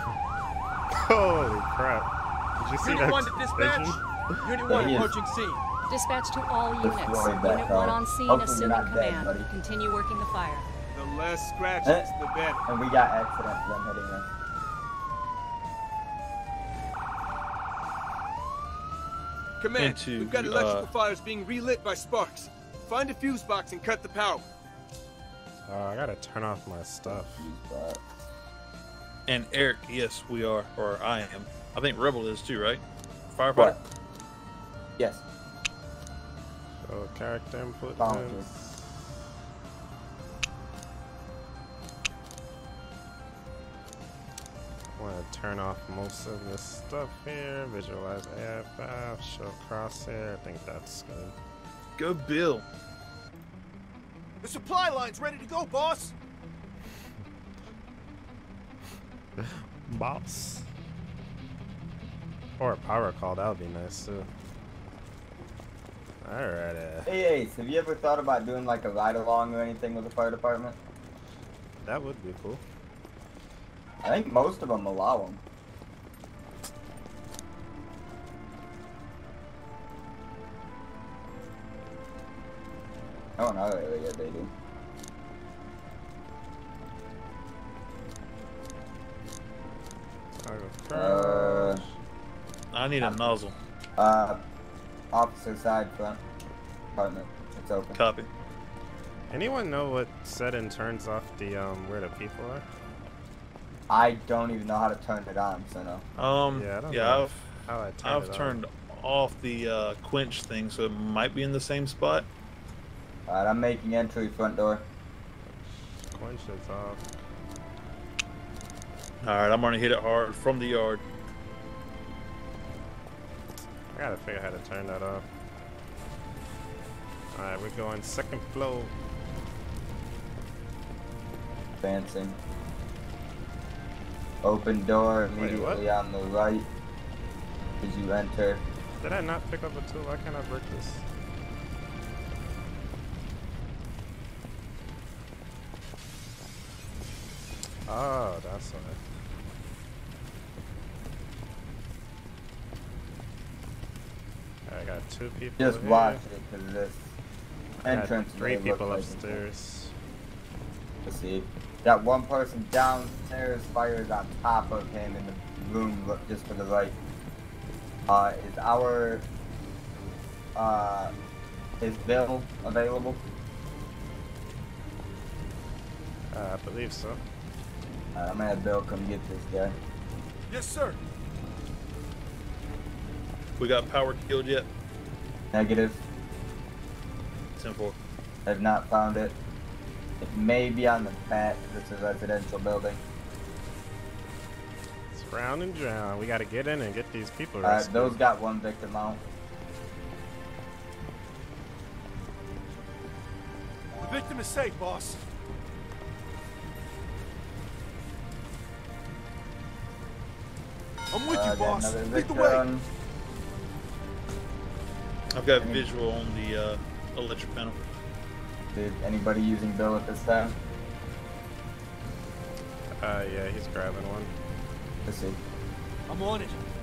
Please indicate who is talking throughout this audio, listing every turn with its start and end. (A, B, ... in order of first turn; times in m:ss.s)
0:00.9-0:04.4 A
0:02.8-0:05.6 B
0:04.6-0:05.1 C
0:05.9-0:10.7 D
0:06.8-0:09.5 C
0:10.9-0:12.6 B
0:11.8-0:12.1 C
0:12.6-0:14.3 C
0:19.6-0:24.5 B
0:19.8-0:20.9 E
0:25.6-0:27.4 A
0:27.0-0:28.0 C
0:29.3-0:32.8 E
0:33.4-0:33.8 E
0:35.0-0:35.2 C
0:36.8-0:39.2 A
0:38.0-0:38.5 C
0:45.0-0:51.3 A
0:52.0-0:52.6 E
0:54.4-0:56.1 B
0:59.4-1:00.6 A
1:02.6-1:04.3 A
1:06.2-1:07.1 A
1:07.0-1:10.8 C
1:11.8-1:12.6 A
1:14.0-1:15.4 C
1:23.4-1:24.5 C
1:30.4-1:32.0 A
1:30.9-1:31.8 C
1:32.7-1:33.5 E
1:33.0-1:33.3 C
1:34.0-1:34.4 C
1:35.1-1:36.2 C
1:37.0-1:38.0 C
1:37.9-1:38.3 E
1:39.3-1:42.7 A
1:43.9-1:46.0 C
1:46.2-1:47.4 E
1:46.5-1:48.6 A
1:48.0-1:52.3 E
1:53.3-1:54.8 C
1:56.1-1:57.1 A
1:59.2-2:01.0 E
2:03.9-2:05.2 A
2:07.3-2:08.9 A
2:11.8-2:12.4 C
2:14.4-2:16.7 C
2:15.4-2:15.8 A
2:17.8-2:18.6 C
2:19.0-2:21.0 A
2:27.9-2:29.0 A
2:34.7-2:36.2 A
2:35.6-2:37.1 C
2:37.8-2:39.9 A
2:37.8-2:39.4 C
2:41.0-2:47.0 C
2:48.1-2:49.2 C
2:50.5-2:51.1 C
2:51.8-2:53.2 C
2:56.3-2:57.2 A
2:58.1-2:59.8 C
3:00.5-3:01.0 B
3:03.6-3:04.7 E
3:05.5-3:06.0 C
3:07.6-3:08.0 E
3:08.4-3:09.4 C
3:10.2-3:13.0 C
3:15.1-3:18.2 A
3:17.6-3:19.2 C
3:24.0-3:25.2 B
3:31.1-3:32.6 B
3:31.2-3:32.8 C
3:35.3-3:37.8 E
3:38.7-3:40.6 C
3:42.9-3:44.3 A
3:45.0-3:45.4 C
3:46.1-3:46.6 B